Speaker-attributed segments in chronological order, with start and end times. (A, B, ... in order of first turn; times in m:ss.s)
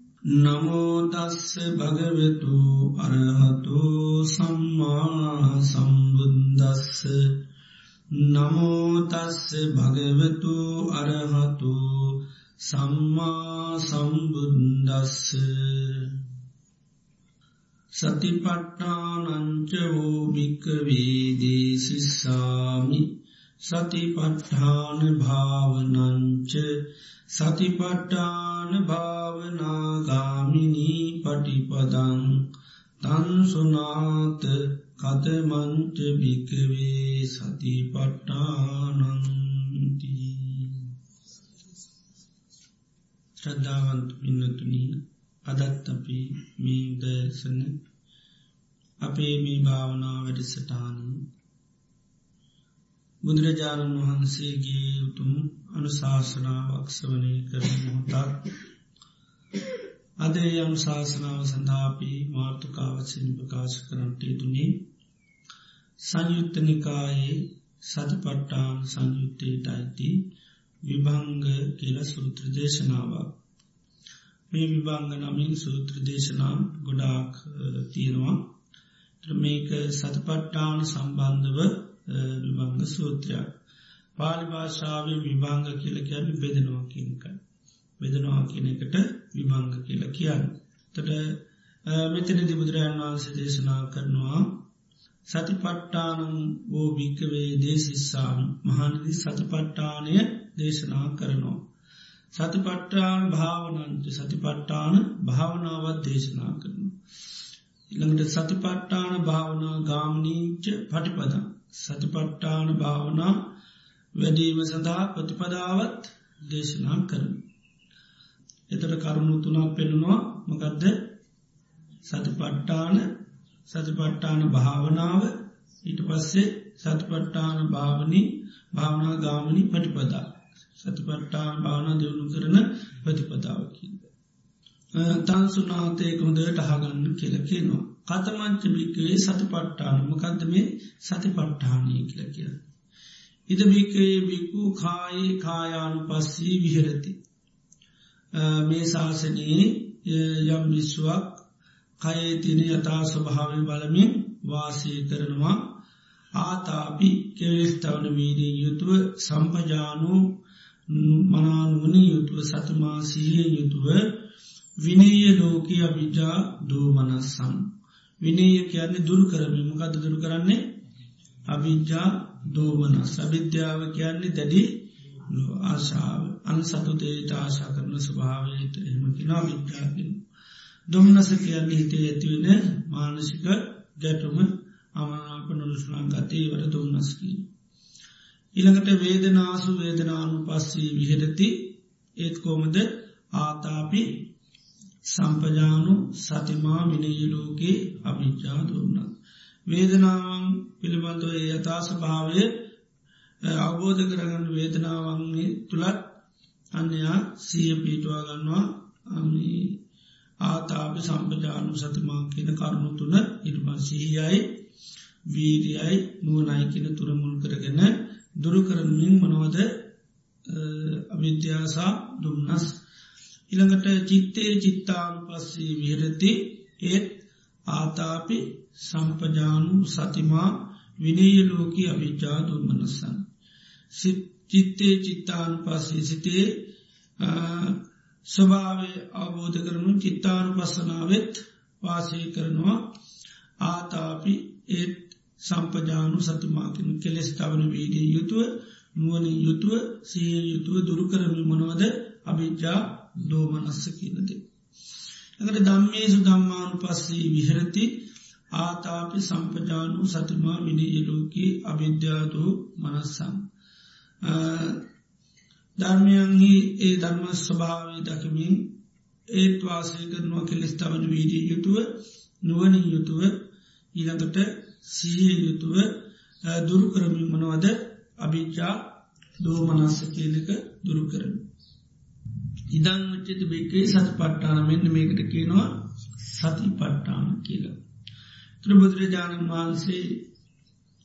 0:00.3-0:07.4 A
0:08.1-0:16.2 A
0:17.9-0:26.7 A
0:27.3-0:32.5 A
0:33.0-0:40.9 A
0:43.4-0:47.8 A
0:49.0-0:51.3 A
0:53.2-0:58.5 A
1:00.2-1:04.8 A
1:06.0-1:10.3 A
1:10.8-1:13.4 A
1:14.5-1:18.5 A
1:19.2-1:23.5 A
1:24.2-1:27.4 A
1:28.0-1:34.6 A
1:35.3-1:41.7 A
1:42.3-1:47.0 A
1:47.9-1:53.5 A
1:54.1-1:57.4 A
1:58.7-2:01.2 A
2:02.0-2:03.2 A
2:03.7-2:14.1 A
2:14.9-2:22.5 A
2:23.5-2:27.2 A
2:28.3-2:31.4 A
2:32.0-2:35.8 A
2:36.4-2:40.4 A
2:40.9-2:44.2 A
2:44.8-2:50.8 A
2:51.5-3:00.2 A
3:00.9-3:07.5 A
3:08.5-3:14.3 A
3:15.1-3:19.1 A
3:19.7-3:22.5 A
3:23.4-3:26.2 A
3:26.7-3:29.8 A
3:30.4-3:34.6 A
3:35.3-3:39.9 A
3:40.5-3:42.8 A
3:43.5-3:53.2 A
3:53.9-3:56.7 A
3:57.2-4:02.9 A
4:03.6-4:14.4 A
4:15.4-4:23.4 A
4:24.2-4:24.8 A
4:25.8-4:28.8 A
4:29.3-4:41.5 A
4:42.7-4:47.8 A
4:48.6-4:50.3 A